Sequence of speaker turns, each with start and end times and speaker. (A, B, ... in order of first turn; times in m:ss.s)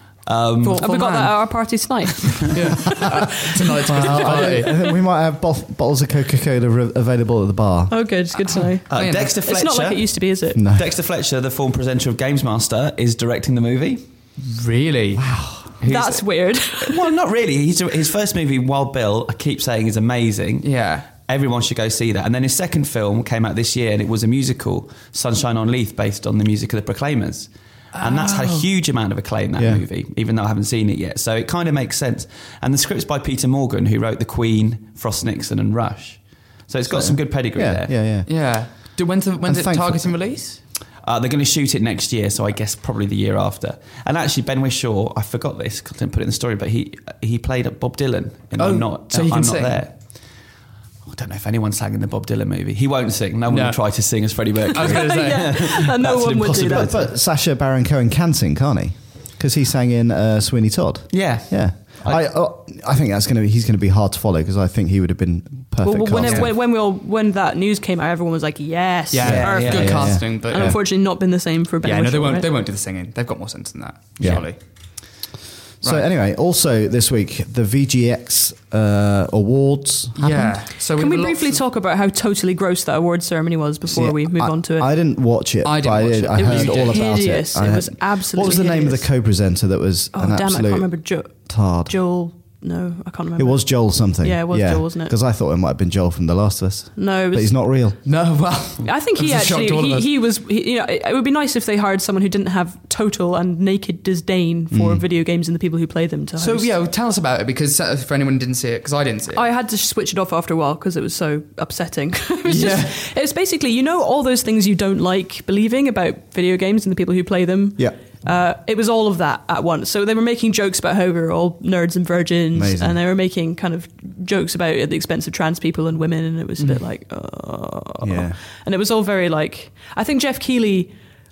0:00.2-0:00.8 A
0:00.6-0:03.1 B
0:00.7-0:01.5 C
0:02.5-0:04.8 C
0:03.8-0:07.9 D
0:03.9-0:04.8 B
0:07.9-0:10.6 B
0:08.9-0:14.0 A
0:08.9-0:09.4 C
0:10.5-0:10.8 D
0:14.4-0:15.3 C
0:15.1-0:15.7 D
0:15.8-0:16.2 A
0:15.8-0:17.1 B
0:16.8-0:38.0 A
0:20.6-0:21.0 C
0:28.0-0:28.6 C
0:29.6-0:29.8 D
0:36.9-0:40.2 D
0:38.2-0:40.6 C
0:41.0-0:50.0 A
0:48.6-0:49.8 C
0:51.0-0:57.1 A
0:53.5-0:53.8 C
0:54.7-0:55.5 C
0:54.7-0:56.9 B
0:56.6-1:06.5 D
1:01.1-1:02.2 A
1:05.8-1:12.5 B
1:06.2-1:06.5 C
1:09.1-1:10.8 C
1:09.2-1:10.1 A
1:09.2-1:10.8 D
1:11.8-1:14.6 C
1:14.2-1:14.4 D
1:15.8-1:20.6 D
1:20.2-1:21.6 C
1:20.7-1:24.9 B
1:23.8-1:31.9 D
1:25.6-1:27.1 C
1:26.4-1:29.1 B
1:30.1-1:35.1 B
1:33.4-1:38.0 D
1:37.0-1:37.6 B
1:38.0-1:40.1 C
1:38.8-1:46.7 B
1:44.7-1:45.0 D
1:46.4-1:49.4 C
1:49.3-2:10.9 B
1:52.5-1:52.9 C
2:02.5-2:03.0 D
2:08.0-2:08.4 D